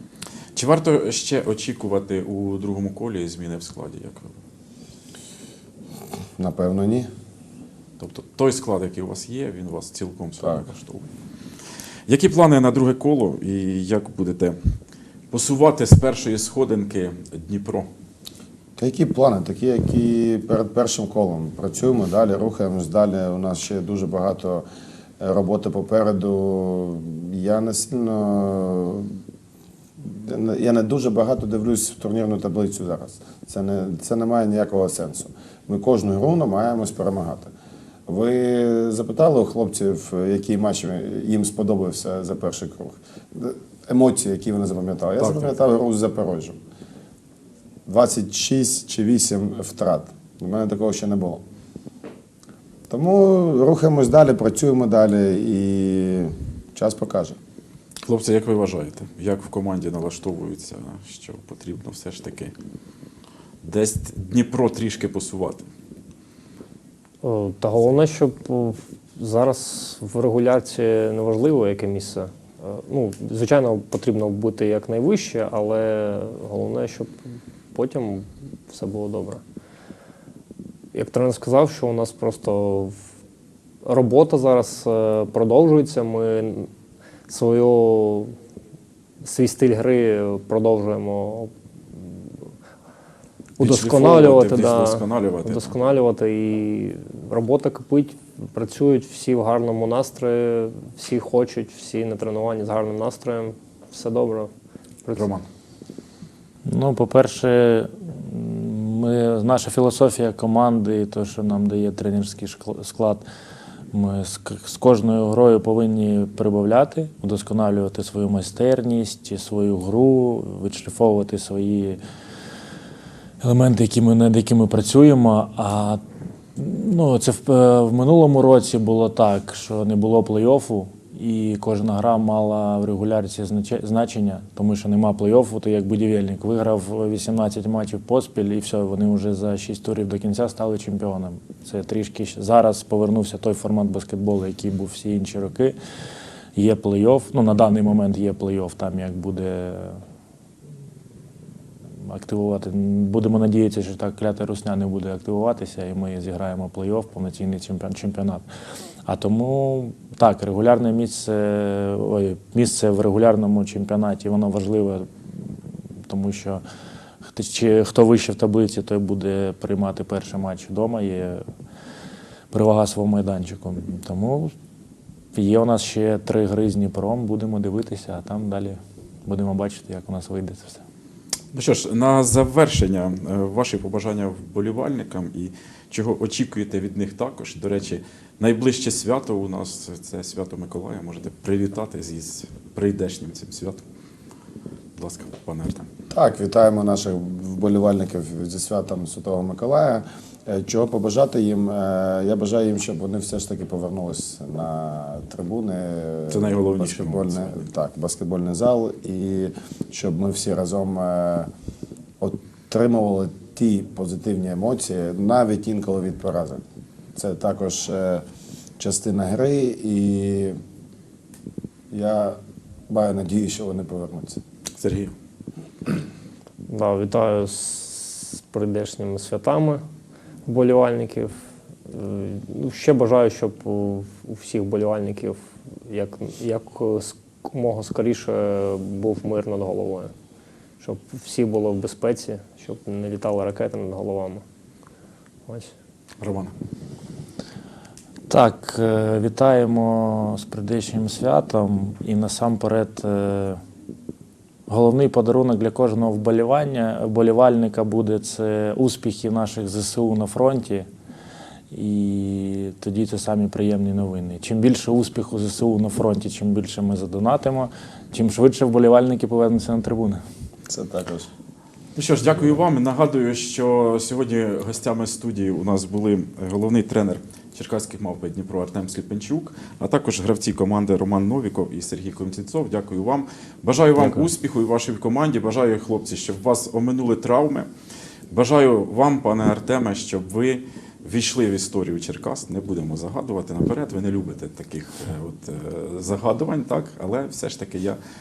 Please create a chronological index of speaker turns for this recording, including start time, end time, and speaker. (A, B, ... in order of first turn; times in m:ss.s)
0:00.5-0:04.3 A
0:06.4-0:07.1 B
0:08.0-0:11.1 A
0:12.1-0:14.6 A
0:15.3-0:17.9 A
0:18.8-0:24.6 B
0:25.2-0:29.2 B
0:30.0-0:37.5 B
0:38.1-0:46.6 B
0:45.2-0:45.5 A
0:47.8-0:51.4 B
0:52.9-0:57.4 B
0:58.0-1:02.5 A
1:03.6-1:05.6 A
1:07.2-1:17.1 C
1:17.7-1:19.4 C
1:20.9-1:23.0 C
1:23.8-1:26.7 C
1:27.3-1:28.3 C
1:29.2-1:31.5 C
1:33.6-1:35.8 A
1:33.6-1:44.5 C
1:45.1-1:45.4 A
1:46.6-1:53.2 D
1:53.9-2:02.0 D
2:03.4-2:06.0 D
2:06.6-2:25.8 D
2:26.5-2:30.0 D
2:32.0-2:38.4 D
2:39.0-2:45.1 D
2:46.1-2:46.6 D
2:47.3-2:51.4 D
2:52.5-2:54.5 D
2:55.3-3:00.8 D
3:01.5-3:13.8 A
3:15.0-3:15.9 A
3:16.1-3:31.5 B
3:26.3-3:27.6 A
3:32.2-3:36.6 B
3:37.1-3:38.2 B
3:38.8-3:40.6 B
3:41.9-3:42.4 B
3:42.9-3:44.4 B
3:44.8-3:45.1 A
3:46.7-3:49.8 C
3:50.5-4:00.1 C
4:00.8-4:04.4 C
4:05.5-4:05.7 C
4:06.2-4:06.5 A
4:08.3-4:13.6 D
4:14.7-4:20.9 D
4:21.7-4:30.2 D
4:30.7-4:31.3 B
4:32.0-4:47.7 A
4:48.3-4:58.0 A